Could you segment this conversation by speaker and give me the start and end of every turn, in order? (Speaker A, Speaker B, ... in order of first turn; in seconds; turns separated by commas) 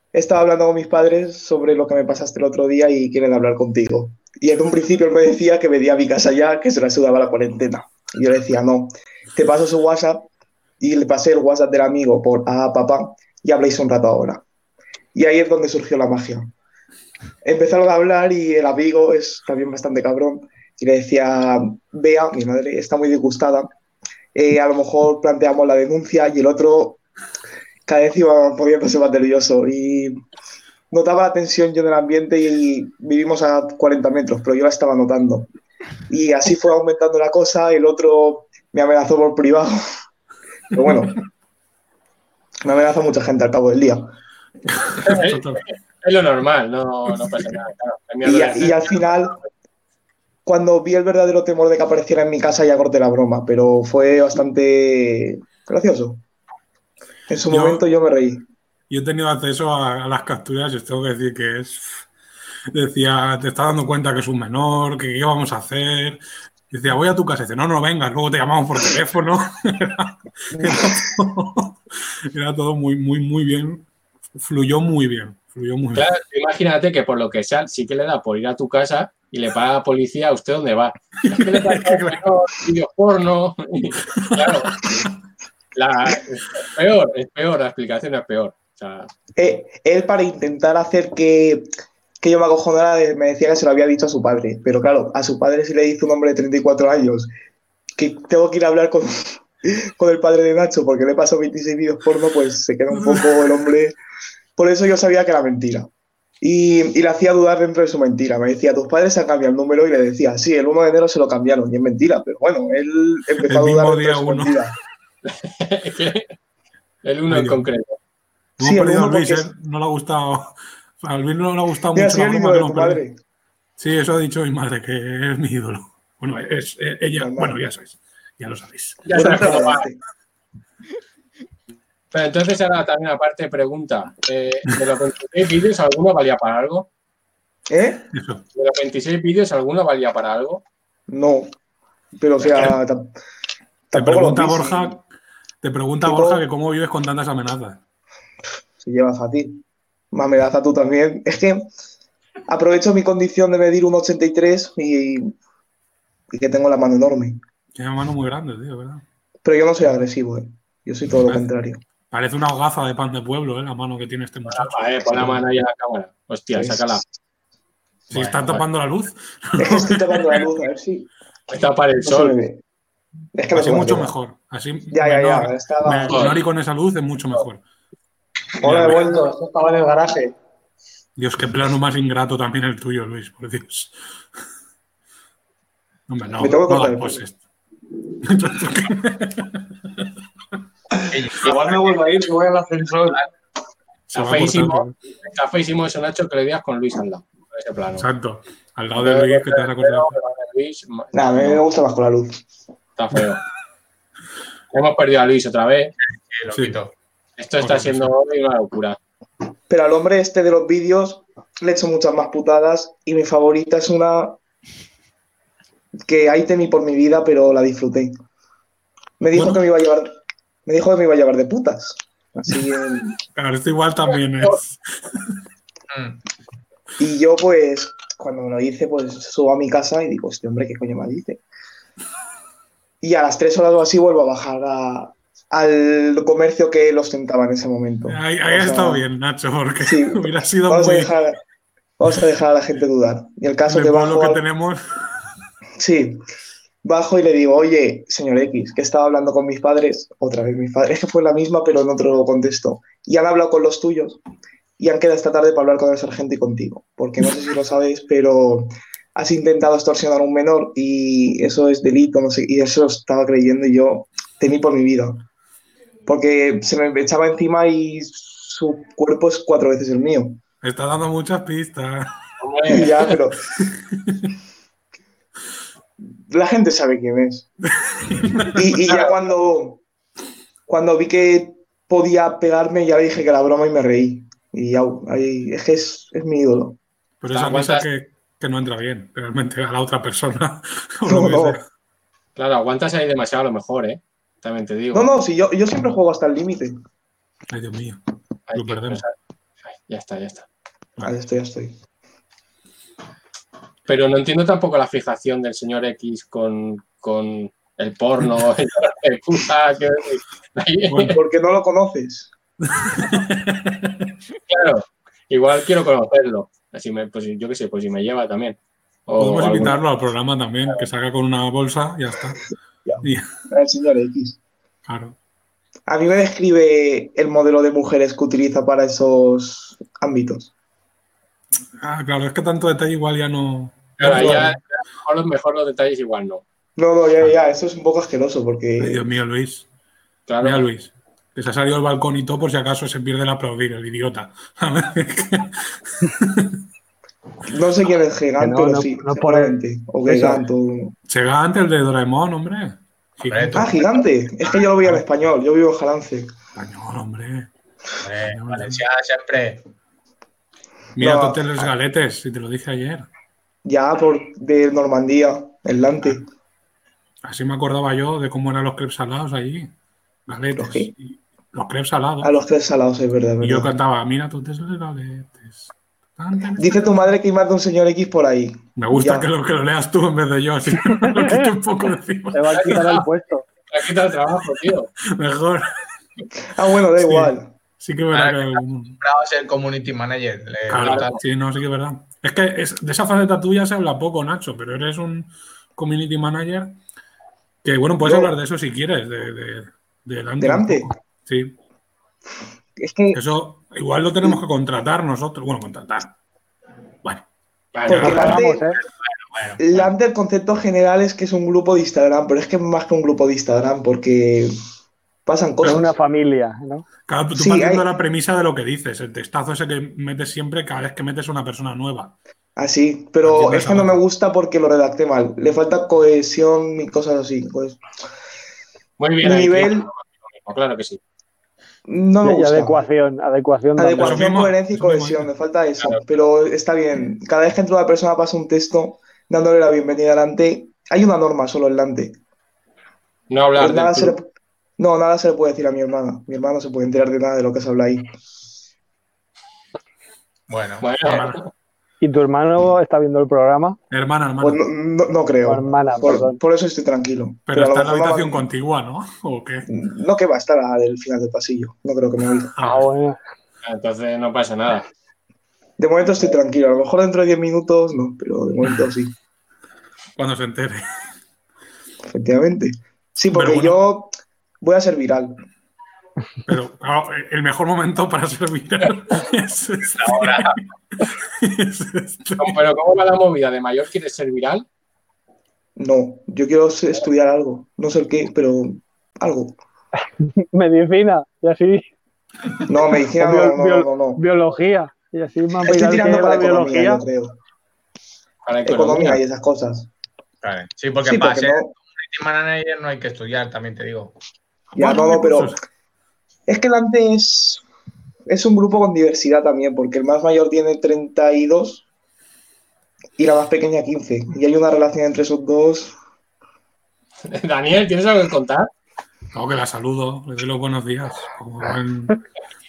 Speaker A: 0.1-10.2, Speaker A: 10.8-14.4, Speaker A: 15.1-16.5, Speaker A: 17.4-23.7, Speaker A: 24.3-27.0, Speaker A: 27.9-30.2, Speaker A: 30.9-35.5, Speaker A: 36.1-39.8, Speaker A: 40.7-41.2, Speaker A: 42.6-44.1, Speaker B: 44.7-45.6, Speaker C: 45.0-49.4, Speaker A: 48.2-49.4, Speaker A: 50.5-56.2, Speaker A: 57.3-58.5, Speaker B: 57.5-57.8, Speaker B: 58.9-62.0, Speaker B: 62.7-76.1, Speaker A: 70.5-71.1, Speaker C: 76.0-84.8, Speaker B: 81.2-82.2, Speaker B: 84.2-84.7, Speaker C: 85.7-89.1, Speaker A: 89.4-91.7, Speaker A: 92.2-97.3, Speaker A: 98.0-103.9, Speaker A: 104.6-105.9, Speaker A: 106.4-114.7, Speaker B: 113.4-114.6, Speaker C: 115.2-116.3, Speaker C: 117.0-118.0, Speaker B: 117.3-117.7, Speaker B: 118.6-123.0, Speaker A: 118.6-119.5, Speaker A: 121.9-123.2, Speaker B: 123.8-129.6, Speaker A: 127.1-127.6, Speaker C: 129.1-129.8, Speaker A: 129.1-130.0, Speaker C: 132.1-136.9, Speaker A: 137.7-138.1, Speaker B: 138.1-138.4, Speaker C: 138.5-140.6, Speaker A: 141.1-141.5, Speaker A: 142.2-143.1, Speaker A: 143.9-145.0, Speaker B: 143.9-145.0, Speaker B: 145.6-147.8, Speaker A: 146.0-146.4, Speaker A: 148.8-151.7, Speaker A: 152.5-155.3, Speaker A: 156.3-157.4, Speaker B: 157.7-159.0, Speaker A: 159.4-161.8, Speaker B: 162.1-165.4, Speaker C: 164.5-167.0, Speaker A: 166.5-167.1, Speaker B: 168.1-170.4, Speaker D: 168.1-168.4, Speaker A: 169.6-171.1, Speaker C: 171.5-172.3, Speaker A: 172.0-172.6, Speaker A: 173.3-174.1, Speaker B: 173.5-177.6, Speaker A: 174.9-176.3, Speaker C: 176.1-176.4, Speaker B: 178.6-179.0, Speaker E: 178.7-180.3, Speaker B: 181.2-183.9, Speaker B: 186.1-187.4, Speaker A: 186.4-187.2, Speaker B: 188.2-190.1, Speaker D: 191.1-192.2, Speaker E: 192.3-193.1, Speaker B: 194.1-194.9, Speaker C: 194.1-198.0, Speaker B: 198.0-200.1, Speaker C: 199.0-201.6, Speaker A: 201.1-202.4, Speaker C: 202.9-203.4, Speaker C: 204.7-205.9, Speaker D: 206.3-206.9, Speaker B: 206.5-206.8, Speaker C: 207.4-209.0, Speaker B: 207.6-208.1, Speaker A: 209.7-214.4, Speaker A: 216.1-218.2, Speaker A: 219.2-220.1, Speaker B: 219.3-219.6, Speaker A: 220.7-223.2, Speaker B: 223.3-225.3, Speaker D: 225.9-226.2, Speaker A: 227.0-231.4, Speaker A: 233.0-239.0, Speaker B: 238.1-241.1, Speaker A: 239.8-241.4, Speaker A: 242.0-244.4, Speaker B: 243.7-244.8, Speaker A: 245.8-246.2, Speaker A: 246.8-254.2, Speaker A: 254.8-265.2, Speaker A: 266.1-270.4, Speaker B: 270.6-272.1, Speaker C: 272.4-273.0, Speaker A: 272.6-273.4, Speaker B: 273.6-274.2, Speaker A: 276.3-277.5, Speaker B: 278.0-278.6, Speaker A: 278.5-279.8, Speaker A: 280.7-286.8, Speaker B: 287.2-291.6, Speaker C: 287.3-287.9, Speaker A: 291.1-291.6, Speaker C: 292.4-295.1, Speaker A: 294.9-296.7, Speaker B: 297.5-298.0, Speaker C: 298.5-299.1, Speaker B: 298.5-299.0, Speaker C: 299.7-300.4, Speaker A: 301.0-301.7, Speaker C: 303.9-311.2, Speaker B: 310.9-311.1, Speaker A: 311.1-312.3, Speaker B: 312.7-314.1, Speaker C: 314.5-319.8, Speaker B: 319.2-322.4, Speaker A: 322.9-324.4, Speaker B: 323.0-323.3, Speaker B: 324.9-325.1, Speaker A: 325.9-330.5, Speaker B: 331.8-334.5, Speaker C: 334.0-336.4, Speaker A: 334.0-334.5, Speaker A: 336.8-339.0, Speaker B: 338.8-339.7, Speaker C: 340.3-340.6, Speaker B: 340.4-346.6, Speaker A: 347.5-350.9, Speaker F: 348.4-350.5, Speaker B: 351.1-353.7, Speaker D: 353.3-353.8, Speaker A: 353.5-356.3, Speaker B: 356.6-357.5, Speaker D: 358.0-359.6, Speaker B: 358.2-358.8, Speaker B: 360.9-363.1, Speaker A: 361.0-361.5, Speaker A: 363.6-366.2, Speaker B: 367.2-369.7, Speaker B: 370.2-372.3, Speaker A: 370.6-370.9, Speaker A: 372.2-373.7, Speaker B: 373.4-376.9, Speaker A: 376.6-379.3, Speaker B: 378.8-382.9, Speaker F: 381.0-381.5, Speaker F: 382.3-383.4, Speaker C: 382.5-383.0, Speaker C: 383.7-384.9, Speaker B: 385.0-385.6, Speaker A: 386.5-387.5, Speaker B: 387.0-389.0, Speaker D: 388.1-391.1, Speaker B: 390.7-396.8, Speaker C: 390.8-391.2, Speaker B: 397.6-401.6, Speaker A: 398.0-398.3, Speaker A: 400.4-400.9, Speaker A: 402.8-403.2, Speaker B: 403.1-406.1, Speaker C: 407.7-408.3, Speaker B: 407.9-408.4, Speaker A: 407.9-408.7, Speaker F: 408.0-408.8, Speaker D: 409.3-409.6, Speaker A: 409.6-414.5, Speaker A: 415.2-415.9, Speaker F: 415.6-416.9, Speaker B: 417.1-422.1, Speaker A: 417.3-417.9, Speaker A: 422.6-427.8, Speaker B: 423.2-424.0, Speaker C: 429.0-431.0, Speaker A: 429.2-429.9, Speaker A: 431.9-432.8, Speaker F: 432.2-434.3, Speaker A: 433.8-442.2, Speaker B: 434.0-435.3, Speaker C: 443.3-444.1, Speaker A: 443.6-444.2, Speaker A: 444.8-448.1, Speaker D: 450.5-450.8, Speaker C: 450.8-451.5, Speaker B: 451.0-451.4, Speaker F: 452.0-453.8, Speaker B: 453.9-454.6, Speaker A: 454.4-458.5, Speaker F: 455.4-456.4, Speaker B: 457.5-459.7, Speaker A: 459.7-462.6, Speaker B: 462.6-462.9, Speaker F: 462.6-463.2, Speaker C: 463.6-464.8, Speaker A: 465.8-469.1, Speaker B: 470.2-470.8, Speaker A: 472.1-475.4, Speaker B: 473.3-473.8, Speaker B: 476.4-482.6, Speaker D: 479.9-480.6, Speaker C: 482.4-484.6, Speaker A: 485.8-489.6, Speaker F: 490.4-491.8, Speaker A: 492.7-494.2, Speaker F: 493.2-497.0, Speaker A: 495.6-497.4, Speaker C: 498.4-499.2, Speaker A: 498.6-499.9, Speaker D: 500.4-504.1, Speaker A: 501.0-501.7, Speaker B: 504.7-505.6, Speaker A: 504.8-505.6, Speaker A: 506.5-507.6, Speaker A: 508.3-511.8, Speaker A: 513.2-516.0, Speaker C: 517.3-518.7, Speaker B: 519.3-522.2